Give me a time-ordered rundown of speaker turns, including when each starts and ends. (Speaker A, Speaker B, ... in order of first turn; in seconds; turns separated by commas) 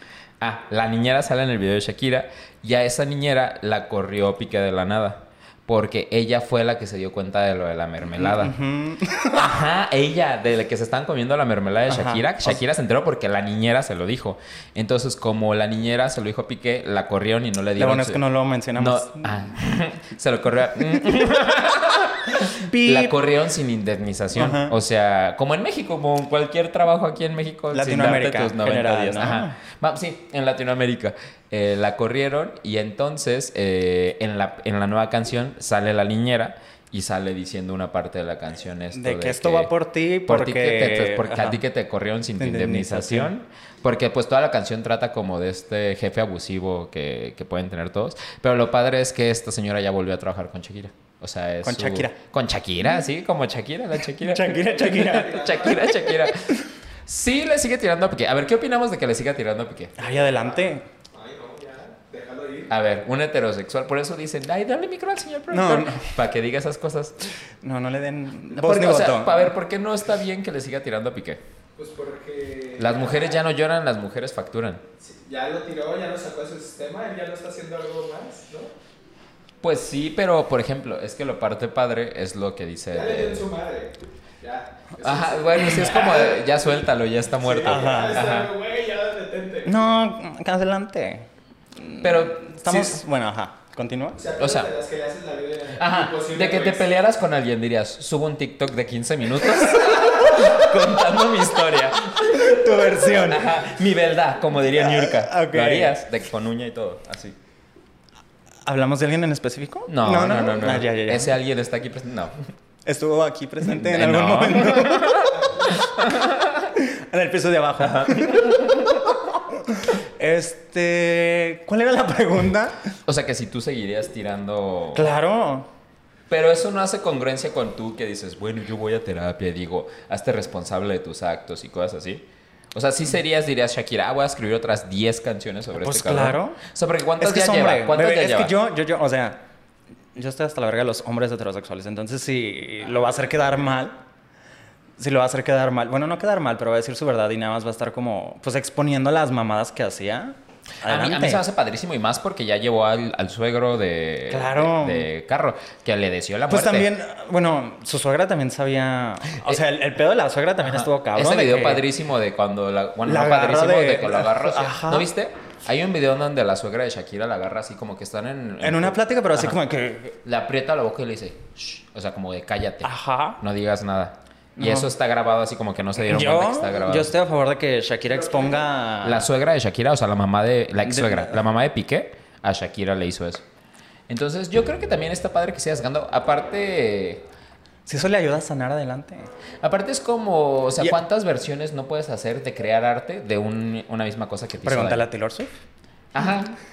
Speaker A: 0.4-8.5, Speaker B: 8.1-9.6, Speaker A: 9.3-18.2, Speaker B: 11.9-12.6, Speaker B: 17.8-19.4, Speaker A: 18.8-39.7, Speaker B: 22.5-23.2, Speaker B: 24.3-24.8, Speaker B: 27.7-29.6, Speaker B: 38.9-41.6, Speaker A: 40.2-60.0, Speaker B: 42.4-43.3, Speaker B: 51.6-52.2, Speaker B: 54.2-56.5, Speaker C: 54.9-56.0, Speaker B: 60.0-60.9, Speaker C: 60.0-62.7, Speaker A: 62.7-67.3, Speaker B: 65.5-66.2, Speaker B: 67.6-69.5, Speaker A: 68.5-71.4, Speaker C: 71.8-73.4, Speaker A: 72.8-74.8, Speaker C: 75.0-78.7, Speaker A: 79.6-83.4, Speaker C: 82.9-86.8, Speaker A: 85.0-88.5, Speaker C: 87.4-89.8, Speaker B: 87.6-88.2, Speaker B: 89.6-94.2, Speaker A: 92.0-93.0, Speaker C: 94.2-96.9, Speaker A: 94.4-94.7, Speaker A: 95.8-107.4, Speaker B: 102.3-103.5, Speaker B: 104.7-106.0, Speaker B: 108.6-111.3, Speaker A: 109.9-112.5, Speaker B: 112.8-115.3, Speaker A: 113.6-116.7, Speaker B: 116.7-122.9, Speaker A: 117.8-119.1, Speaker A: 123.0-125.1, Speaker B: 124.9-125.7, Speaker A: 126.3-138.5, Speaker B: 135.7-136.6, Speaker B: 137.2-139.4, Speaker B: 140.1-144.0, Speaker B: 145.0-151.4, Speaker A: 150.8-156.9, Speaker B: 154.3-155.1, Speaker B: 156.5-161.8, Speaker A: 160.6-169.5, Speaker B: 163.0-165.1, Speaker B: 168.6-170.2, Speaker A: 170.2-177.1, Speaker B: 172.8-173.4, Speaker B: 174.6-174.9, Speaker B: 176.0-179.3, Speaker A: 179.0-183.4, Speaker B: 180.8-181.4, Speaker A: 184.1-187.2, Speaker B: 187.8-189.3, Speaker A: 189.6-195.1, Speaker B: 194.6-195.5, Speaker A: 196.1-196.6